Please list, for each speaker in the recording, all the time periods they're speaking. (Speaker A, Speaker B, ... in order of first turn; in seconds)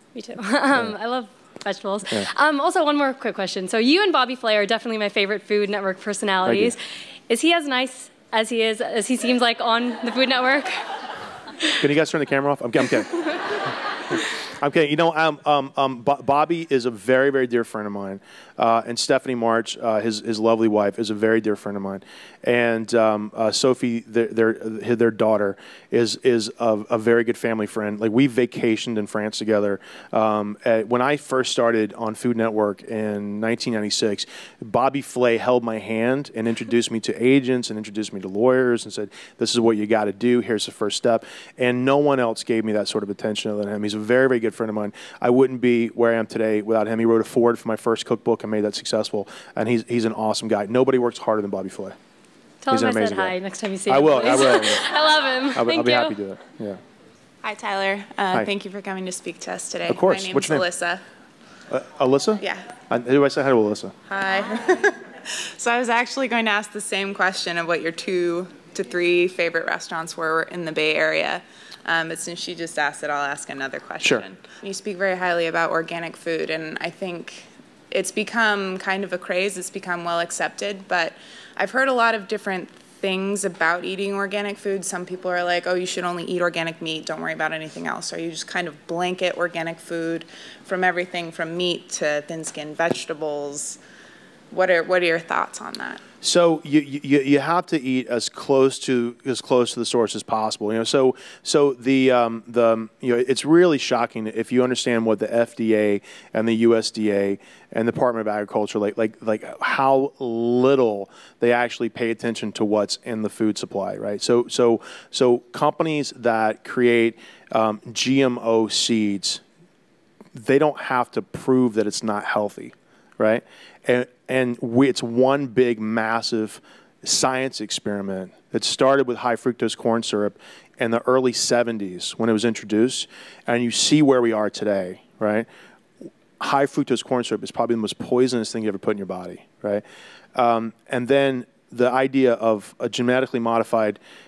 Speaker A: 0.1-10.8, 52.6-56.2
Speaker B: 6.4-6.8, 11.8-13.2, 14.6-52.0, 52.7-53.4, 53.9-54.9, 55.5-56.8, 59.9-60.7, 61.7-64.0, 74.0-74.3, 96.2-119.4, 120.3-135.5, 136.4-139.8, 140.3-144.0
Speaker C: 57.4-61.0, 62.4-62.7, 64.1-93.8, 94.5-96.0